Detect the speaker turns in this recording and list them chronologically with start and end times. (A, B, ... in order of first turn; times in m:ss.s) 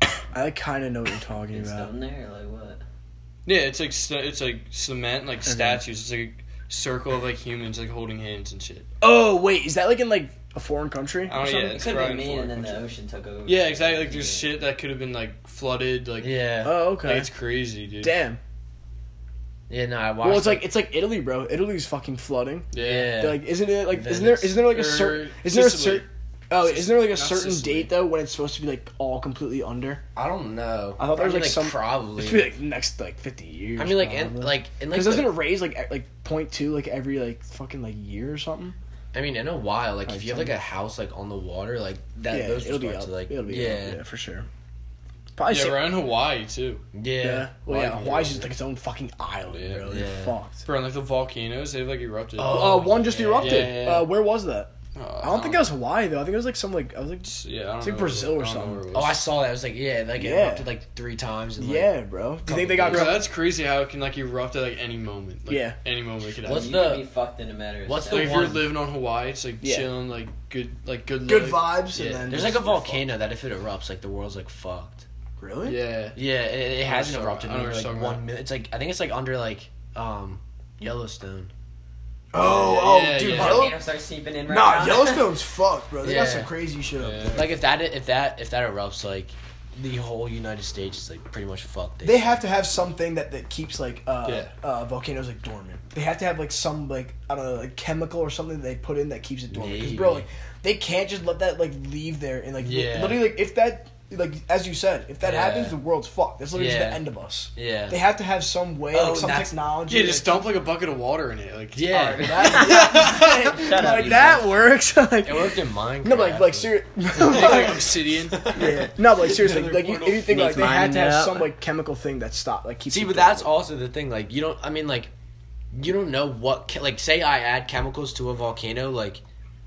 0:00.3-0:01.9 A
0:01.5-0:02.8 B
0:03.4-0:08.9 C
0:05.4-0:05.8 A
0:09.0-0:12.0 A
0:11.3-0:12.8 C
0:11.7-0:14.6 B
0:13.4-0:16.3 C
0:16.2-0:16.8 D
0:16.6-0:17.3 A
0:16.8-0:18.3 C
0:18.0-0:18.4 A
0:19.7-0:20.7 D
0:20.2-0:30.0 A
0:22.7-0:23.2 C
0:22.7-0:24.6 D
0:24.6-0:28.0 C
0:30.1-0:32.5 D
0:31.0-0:38.8 A
0:33.8-0:35.4 D
0:39.1-0:44.0 D
0:40.1-0:40.6 A
0:42.3-0:44.5 A
0:45.4-0:46.0 A
0:45.5-0:46.8 C
0:46.9-0:48.5 D
0:47.2-0:50.7 A
0:49.5-0:50.0 C
0:49.9-0:50.4 D
0:50.6-0:54.1 C
0:52.4-0:53.8 D
0:52.4-0:58.8 A
0:54.9-0:55.7 C
0:57.2-0:59.2 C
0:58.9-1:03.2 D
1:00.2-1:00.7 A
1:01.6-1:03.2 A
1:02.9-1:06.8 C
1:05.5-1:05.8 A
1:06.4-1:07.1 D
1:06.5-1:08.5 B
1:07.8-1:08.7 D
1:08.1-1:12.3 C
1:09.6-1:09.9 A
1:11.2-1:13.0 A
1:12.3-1:15.0 D
1:15.4-1:15.8 A
1:15.7-1:16.2 C
1:16.1-1:21.5 D
1:16.8-1:18.2 C
1:22.3-1:23.8 A
1:22.4-1:23.7 C
1:23.2-1:25.3 B
1:24.5-1:27.4 A
1:26.0-1:26.5 D
1:27.0-1:27.5 C
1:27.3-1:32.4 D
1:32.0-1:50.4 A
1:34.2-1:34.5 C
1:39.5-1:40.2 D
1:42.6-1:43.3 D
1:45.2-1:45.8 D
1:46.5-1:47.0 D
1:47.6-1:48.0 D
1:48.9-1:49.6 D
1:49.9-1:53.5 C
1:51.7-1:53.1 D
1:52.1-1:54.5 B
1:52.5-1:57.9 A
1:55.2-2:00.4 D
1:57.2-1:58.5 C
1:58.5-2:03.5 A
2:00.2-2:01.5 B
2:02.9-2:05.1 D
2:05.7-2:09.2 D